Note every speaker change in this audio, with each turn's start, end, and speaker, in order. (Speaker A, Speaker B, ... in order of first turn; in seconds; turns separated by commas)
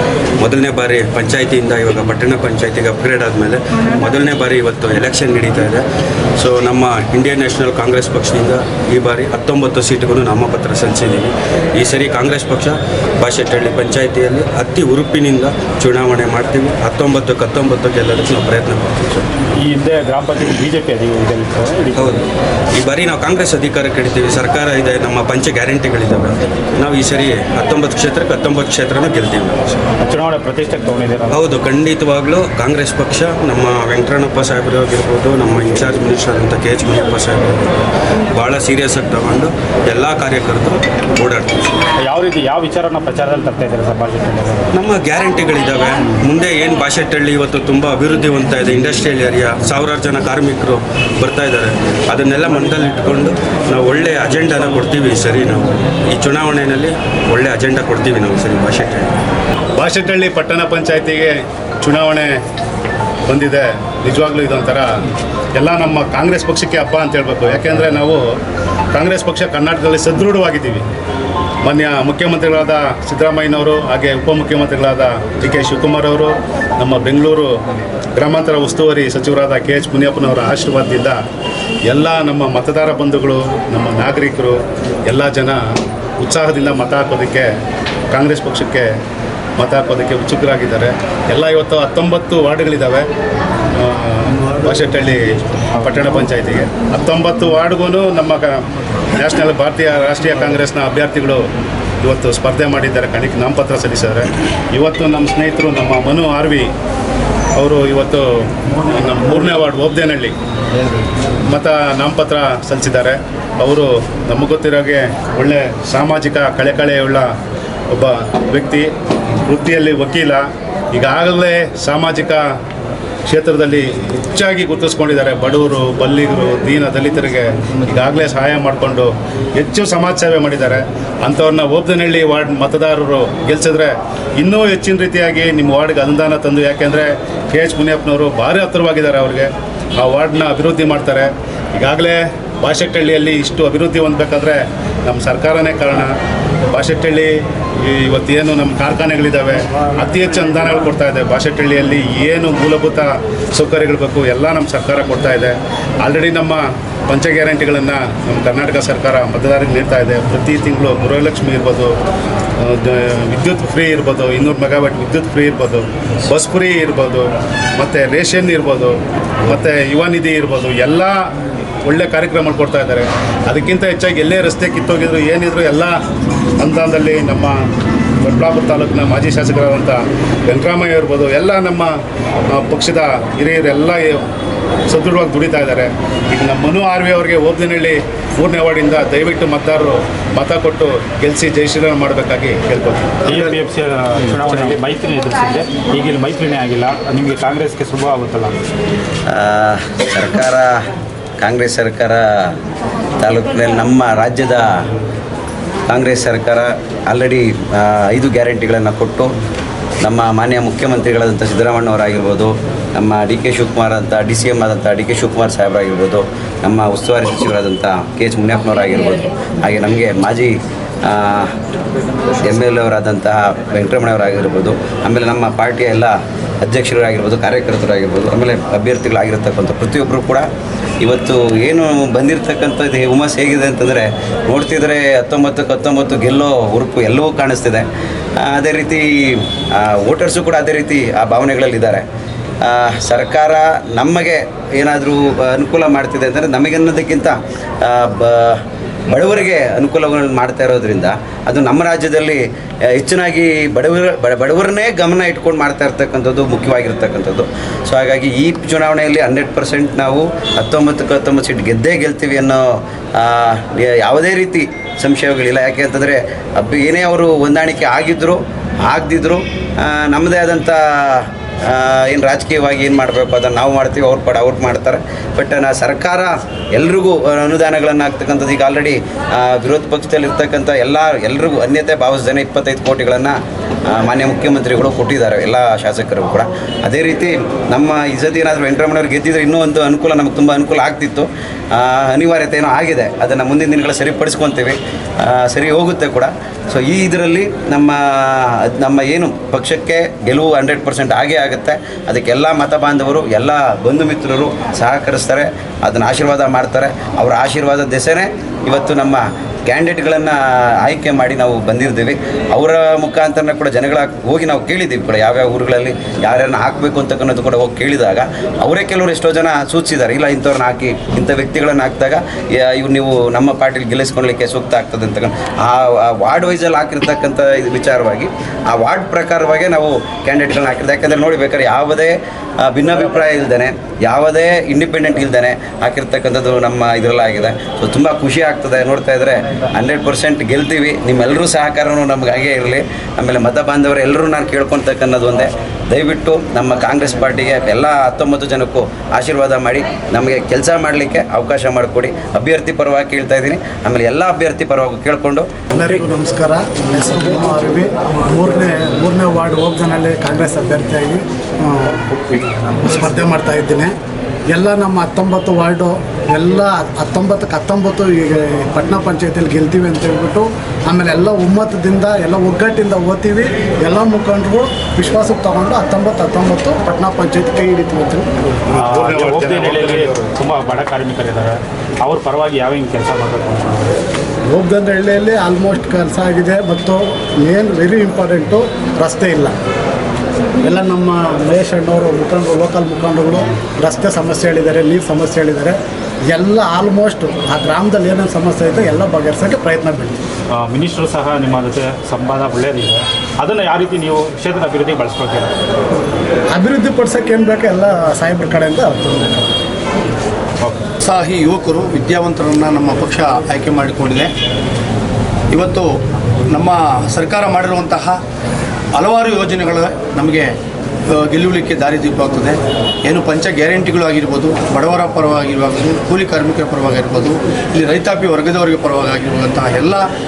Speaker A: 0.4-5.8, Speaker A: 6.4-19.3, Speaker B: 19.5-22.2, Speaker A: 21.9-29.9, Speaker B: 30.0-31.4, Speaker A: 31.3-37.6, Speaker A: 38.3-41.8, Speaker B: 42.0-44.7, Speaker A: 44.7-59.1, Speaker C: 59.8-62.4, Speaker C: 63.3-64.9, Speaker C: 65.6-68.2, Speaker C: 68.9-70.8, Speaker C: 71.6-77.5, Speaker C: 78.2-81.2, Speaker C: 81.9-85.6, Speaker C: 86.2-87.5, Speaker C: 88.1-88.9, Speaker C: 89.6-93.1, Speaker C: 93.7-101.4, Speaker C: 102.0-106.7, Speaker C: 107.5-110.3, Speaker C: 111.5-117.3, Speaker C: 117.9-118.9, Speaker C: 119.4-122.4, Speaker C: 123.3-146.1, Speaker C: 146.7-161.9, Speaker C: 162.6-171.2, Speaker C: 171.8-176.0, Speaker C: 176.6-177.6, Speaker C: 178.2-181.9, Speaker C: 182.5-184.2, Speaker C: 184.9-193.4, Speaker B: 193.2-198.6, Speaker D: 199.3-200.8, Speaker D: 201.4-202.6, Speaker D: 203.2-204.8, Speaker D: 205.9-209.3, Speaker D: 210.0-220.5, Speaker D: 221.0-221.5, Speaker D: 222.4-230.4, Speaker D: 231.0-237.9, Speaker D: 238.4-242.0, Speaker D: 242.6-283.4, Speaker D: 283.9-355.5, Speaker E: 355.7-363.9, Speaker E: 364.5-378.5, Speaker C: 378.7-380.3, Speaker B: 378.8-384.0, Speaker E: 384.5-389.5, Speaker E: 390.6-395.8, Speaker E: 396.3-400.2, Speaker B: 400.5-405.5, Speaker E: 406.5-409.5, Speaker F: 411.0-414.3, Speaker F: 415.5-415.9, Speaker F: 416.5-418.2, Speaker F: 418.9-420.5, Speaker F: 421.1-430.1